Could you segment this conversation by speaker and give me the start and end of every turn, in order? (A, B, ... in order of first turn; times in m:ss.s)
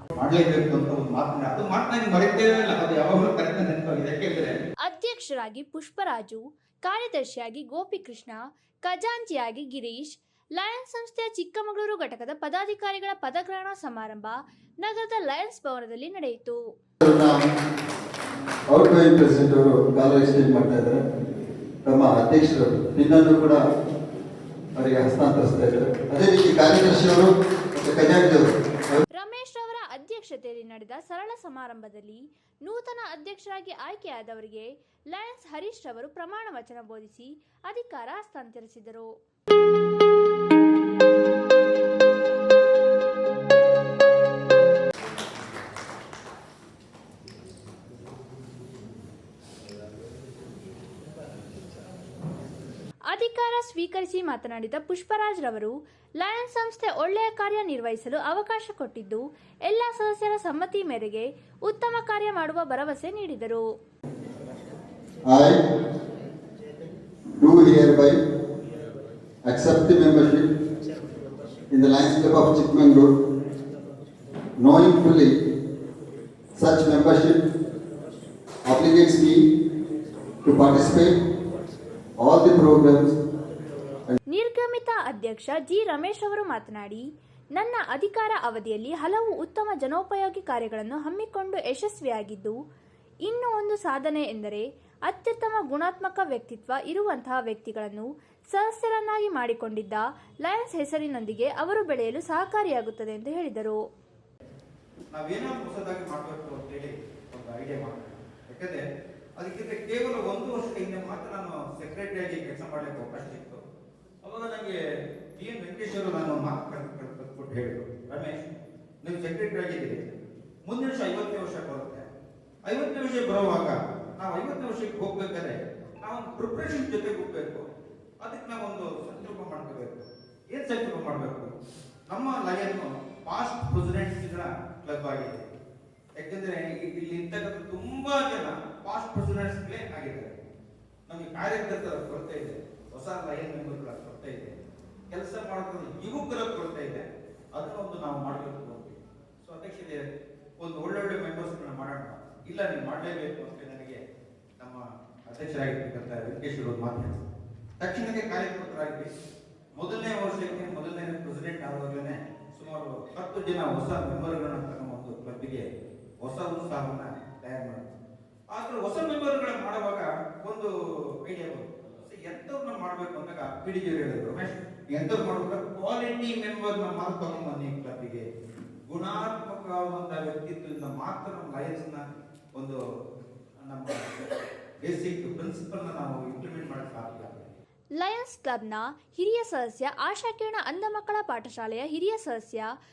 0:00.2-0:04.6 A
0:04.8-0:16.6 B
0:17.0-0:17.3 C
0:18.7-0:21.0 C
0:21.9-0:23.6 C
0:24.8-0:29.0 C
0:29.1-0:39.1 B
0:53.1-1:03.6 B
1:05.3-1:05.6 C
1:07.4-1:08.2 C
1:09.4-1:10.5 C
1:11.7-1:13.1 C
1:14.6-1:15.3 C
1:16.6-1:17.4 C
1:18.7-1:19.4 C
1:20.4-1:21.1 C
1:22.2-1:23.1 C
1:24.3-1:27.0 B
1:27.6-1:32.6 B
1:33.3-1:43.8 B
1:45.1-1:48.8 A
1:49.4-1:53.6 A
1:54.2-1:54.7 A
1:55.4-1:58.3 A
1:59.0-2:00.0 A
2:00.6-2:02.1 A
2:02.7-2:07.6 A
2:08.2-2:11.5 A
2:12.1-2:15.4 A
2:16.2-2:20.4 A
2:21.1-2:24.5 A
2:25.1-2:30.0 A
2:30.6-2:34.0 A
2:34.6-2:37.1 A
2:37.8-2:39.1 A
2:39.8-2:45.6 A
2:46.2-2:47.9 A
2:48.5-2:50.7 A
2:51.2-2:58.2 A
2:58.9-3:02.0 A
3:03.6-3:04.3 A
3:04.8-3:07.6 A
3:08.0-3:12.7 B